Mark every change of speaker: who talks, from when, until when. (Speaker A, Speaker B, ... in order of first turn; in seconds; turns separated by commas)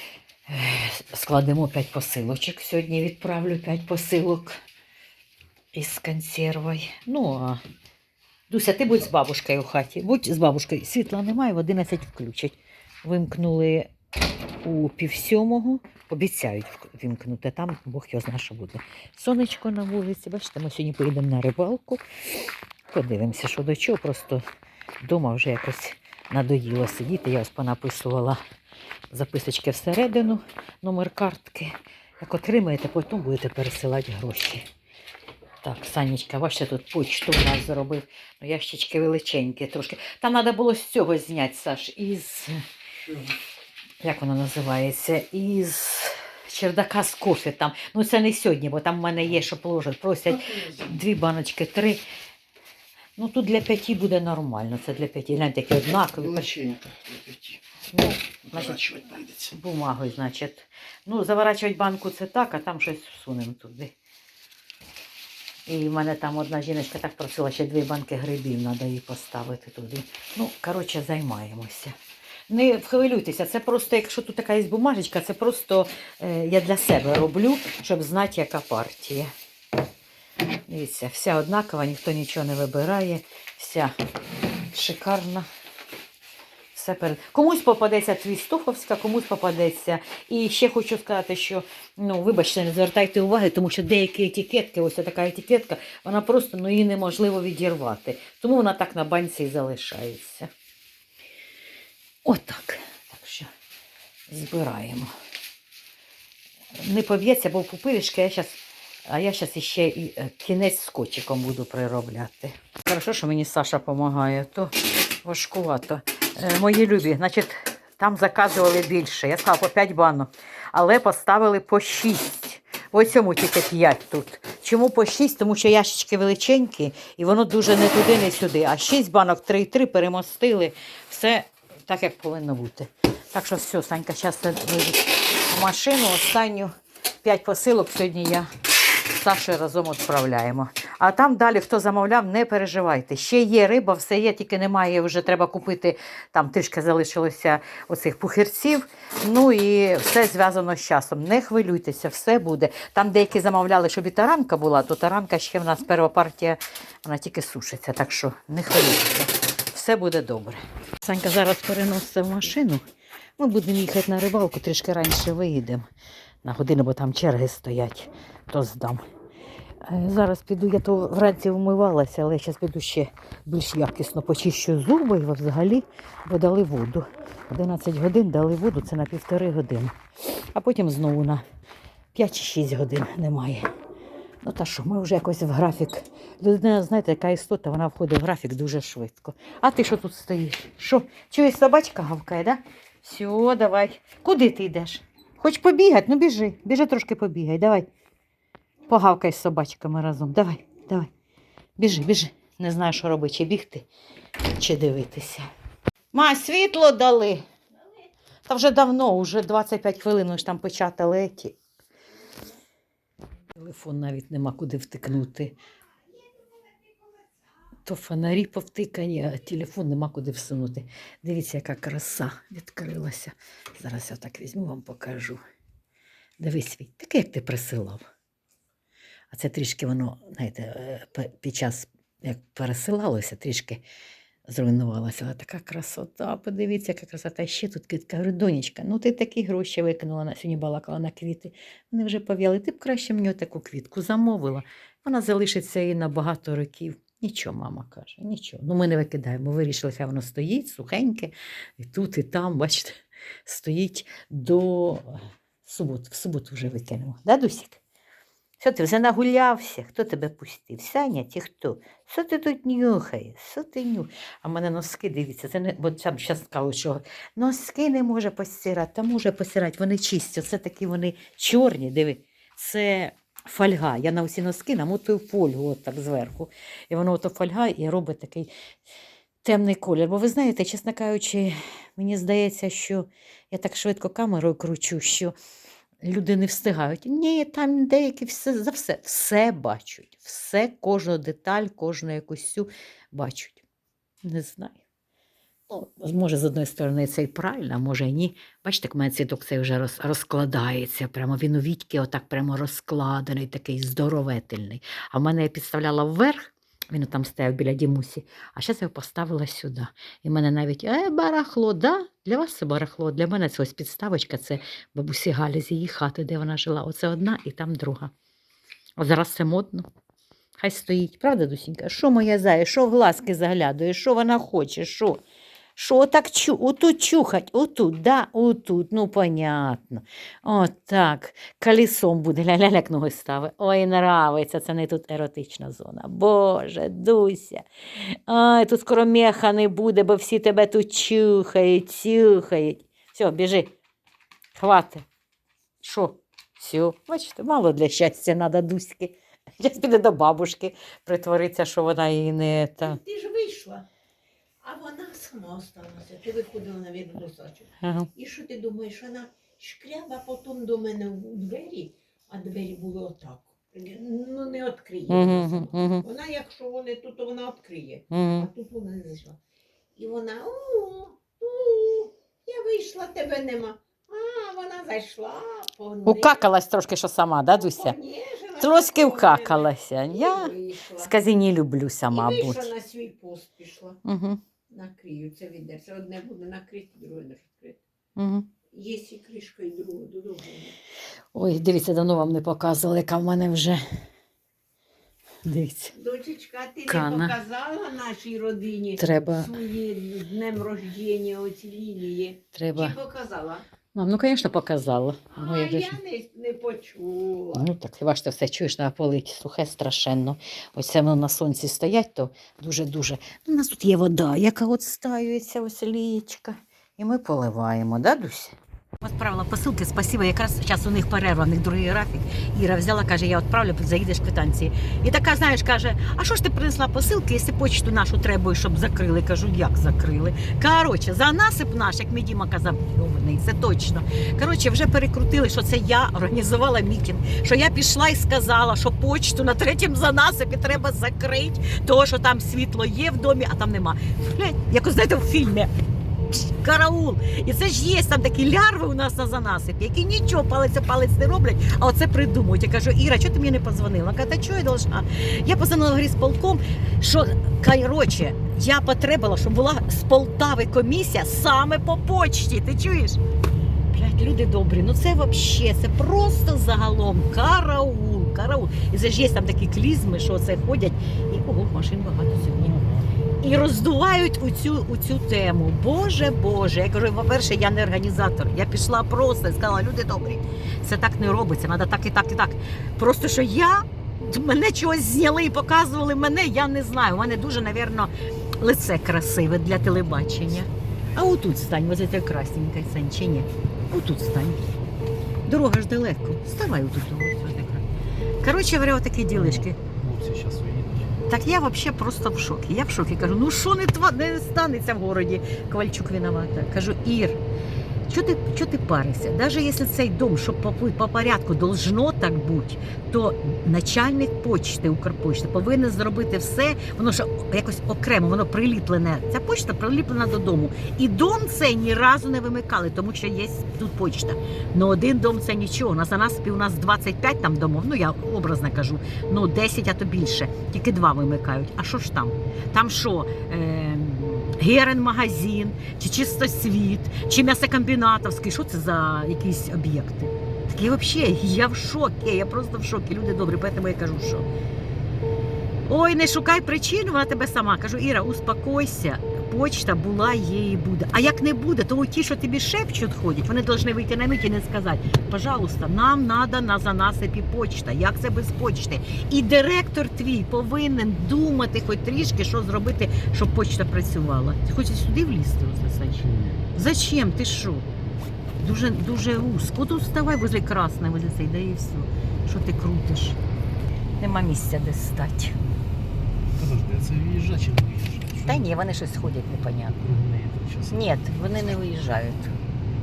Speaker A: 0.5-4.6, Speaker A: 5.7-7.6, Speaker A: 8.5-13.9, Speaker A: 14.6-22.0, Speaker A: 22.9-24.4, Speaker A: 25.0-28.4, Speaker A: 29.1-34.6, Speaker A: 35.6-42.6, Speaker A: 44.0-52.0, Speaker A: 53.2-56.8, Speaker A: 57.9-63.9, Speaker A: 65.7-71.9, Speaker A: 72.5-79.3, Speaker A: 80.7-83.9, Speaker A: 84.7-85.5, Speaker A: 86.7-100.5, Speaker A: 102.2-103.5, Speaker A: 104.3-105.1, Speaker A: 106.8-114.7, Speaker A: 115.2-138.5, Speaker A: 139.1-162.8, Speaker A: 163.4-165.8, Speaker A: 166.4-169.0, Speaker A: 169.8-179.9, Speaker A: 180.5-181.4, Speaker A: 182.1-183.6, Speaker A: 184.4-197.9, Speaker A: 198.9-201.1, Speaker A: 201.8-203.9, Speaker A: 204.5-205.5, Speaker A: 206.1-207.4, Speaker A: 208.5-211.5, Speaker A: 213.6-215.5, Speaker A: 217.8-225.4, Speaker A: 226.4-228.0, Speaker A: 229.3-233.8, Speaker A: 234.5-257.8, Speaker A: 258.6-278.5, Speaker A: 279.4-285.3, Speaker A: 286.0-293.6, Speaker A: 294.2-294.8, Speaker A: 295.7-318.1, Speaker A: 319.0-319.9, Speaker A: 320.6-325.2, Speaker A: 325.8-337.6, Speaker A: 338.3-343.7, Speaker A: 344.5-345.1, Speaker A: 345.8-353.0, Speaker B: 352.8-353.8, Speaker B: 354.6-369.4, Speaker A: 357.8-358.1, Speaker A: 365.1-366.0, Speaker A: 368.1-368.5, Speaker B: 369.9-376.4, Speaker A: 376.1-377.9, Speaker B: 377.5-381.1, Speaker A: 378.6-382.7, Speaker B: 382.1-384.0, Speaker A: 384.0-384.4, Speaker B: 384.7-387.8, Speaker A: 388.1-388.5, Speaker B: 388.7-390.8, Speaker A: 391.3-393.8, Speaker A: 395.4-395.9, Speaker B: 395.9-403.6, Speaker A: 396.9-397.3, Speaker A: 399.0-399.5, Speaker A: 402.5-402.9, Speaker A: 403.9-405.9, Speaker B: 405.3-407.7, Speaker A: 407.5-445.7, Speaker A: 446.3-463.2, Speaker A: 463.9-494.6, Speaker A: 495.4-497.9, Speaker A: 498.4-499.8, Speaker C: 500.0-501.1, Speaker A: 501.2-507.4, Speaker A: 508.1-544.5, Speaker A: 545.9-567.9, Speaker A: 568.6-573.4, Speaker A: 574.2-575.6, Speaker C: 576.6-578.3, Speaker A: 578.3-580.0, Speaker C: 580.0-580.9, Speaker A: 580.8-582.5